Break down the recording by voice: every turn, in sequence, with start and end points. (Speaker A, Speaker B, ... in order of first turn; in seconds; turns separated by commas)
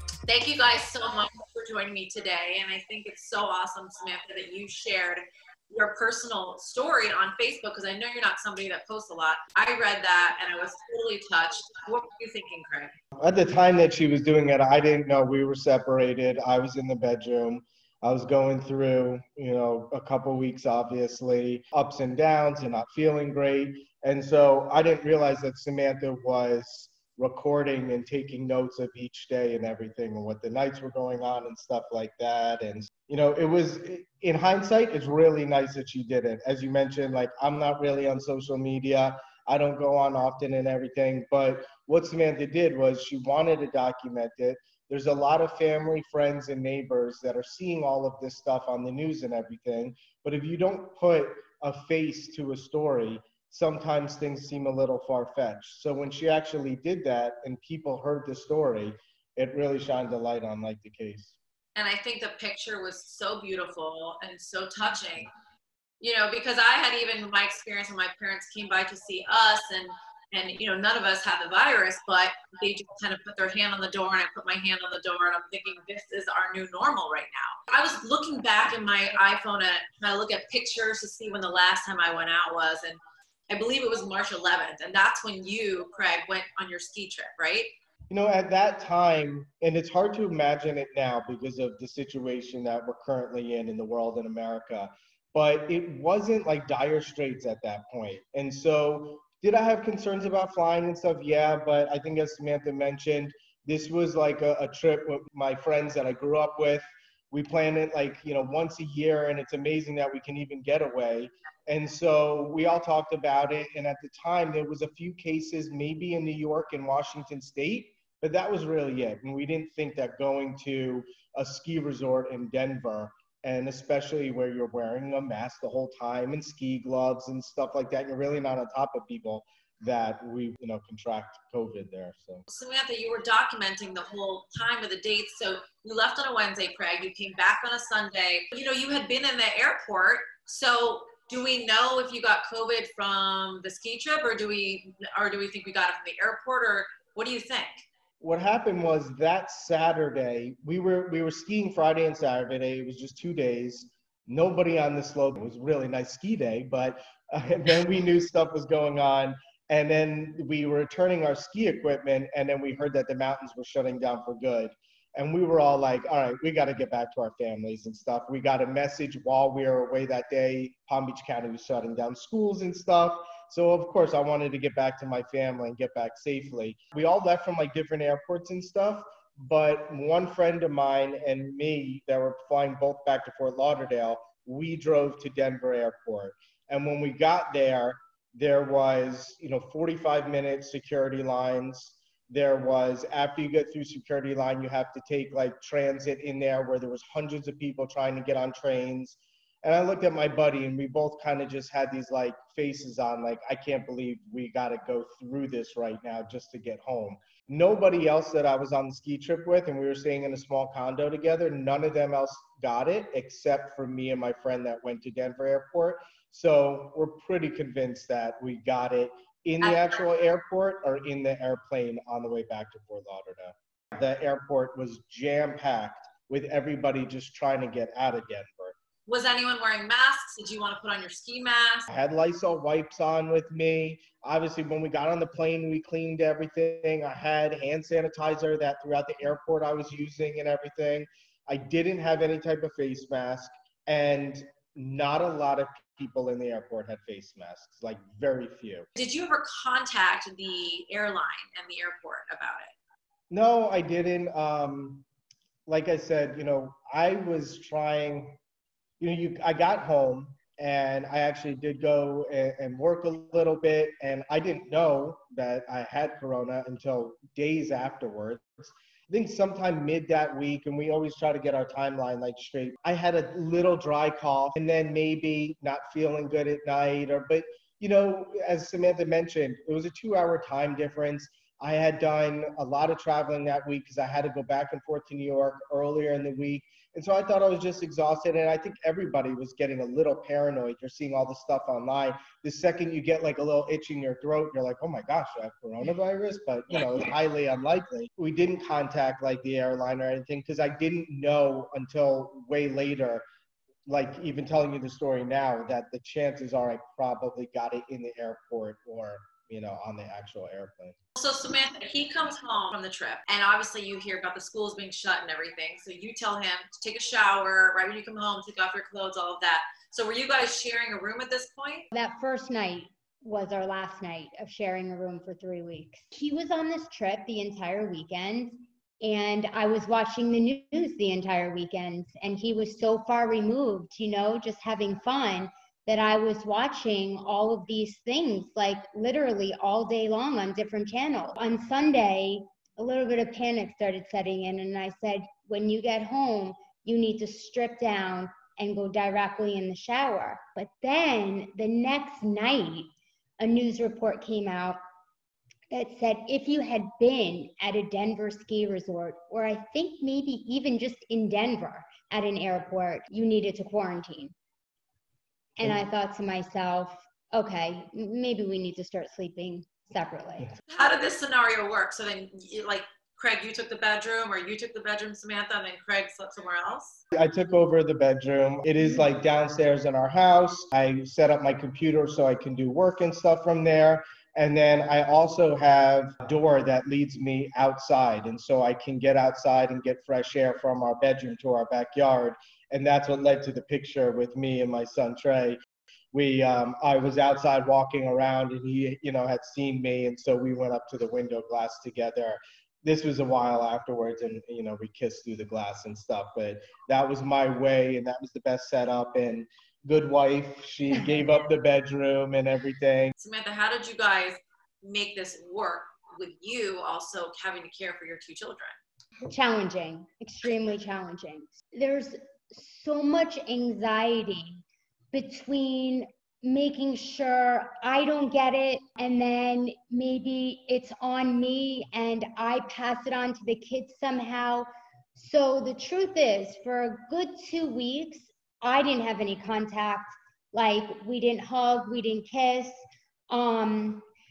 Speaker A: 0.3-13.0, Speaker B: 13.2-61.4, Speaker A: 61.8-65.3, Speaker A: 66.0-87.7, Speaker B: 88.1-132.4, Speaker A: 132.5-147.8, Speaker B: 148.2-228.8, Speaker A: 219.6-220.0, Speaker A: 229.1-231.9, Speaker B: 231.9-248.9, Speaker A: 249.0-252.7, Speaker B: 253.3-255.1, Speaker B: 255.7-258.4, Speaker B: 259.0-303.2, Speaker B: 303.9-311.0, Speaker A: 311.2-321.9, Speaker C: 321.9-352.9, Speaker C: 353.4-354.8, Speaker C: 355.7-364.3, Speaker C: 365.6-370.5, Speaker A: 370.7-377.0, Speaker B: 377.1-395.6, Speaker B: 396.1-413.1, Speaker A: 413.2-418.8, Speaker C: 419.3-442.8, Speaker C: 443.3-444.0